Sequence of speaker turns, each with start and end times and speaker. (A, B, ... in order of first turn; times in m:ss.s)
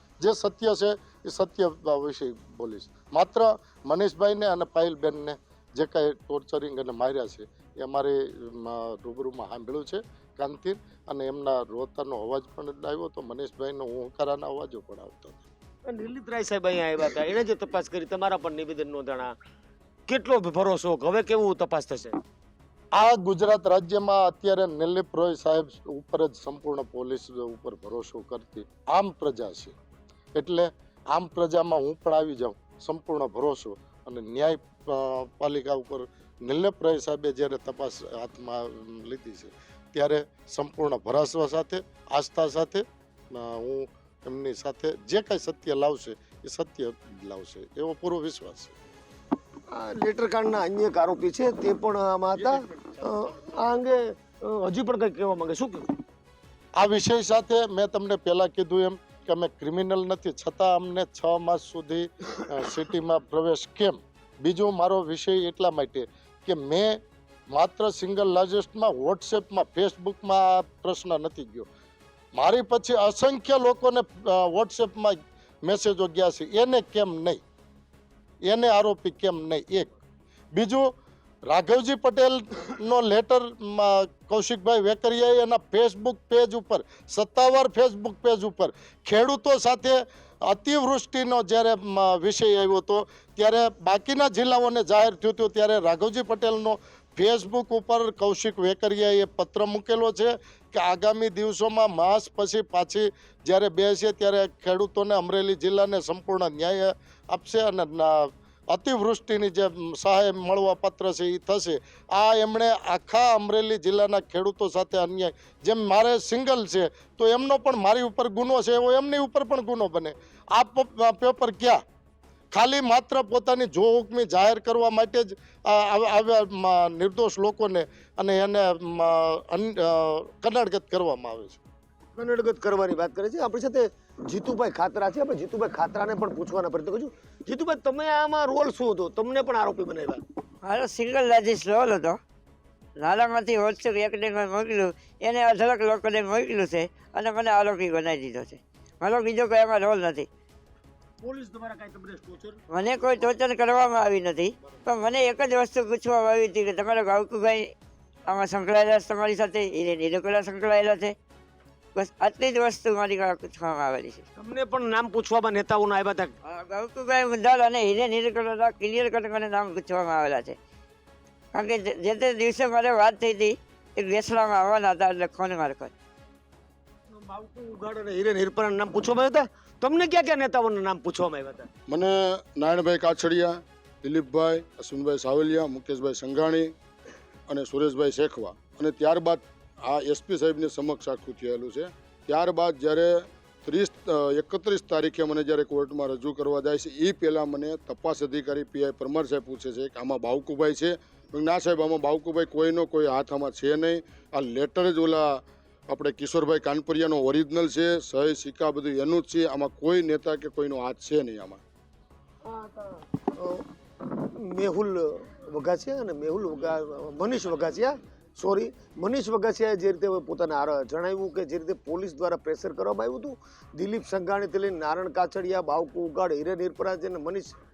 0:00.2-0:15.4 A
0:15.8-0:19.3 B
0:20.1-0:22.2 B
0:22.9-0:29.7 A
0:30.3-0:48.7 A
0:49.7-0:56.0 B
0:56.8-1:07.0 A
1:07.5-1:11.7 A
1:12.4-1:17.4 A
1:18.4-1:19.9 A
1:20.5-1:20.9 A
1:21.5-2:01.8 A
2:02.5-2:11.6 A
2:12.2-2:20.2 B
2:20.6-2:22.2 C
2:23.0-2:30.3 C
2:31.2-2:32.6 B
2:32.7-2:37.7 C
2:38.3-2:41.2 C
2:41.9-2:44.2 C
2:44.4-2:46.4 B
2:46.4-2:50.6 C
2:51.5-2:55.9 C
2:57.1-3:01.7 B
3:01.9-3:06.7 D
3:07.5-3:31.6 D
3:32.4-3:47.5 B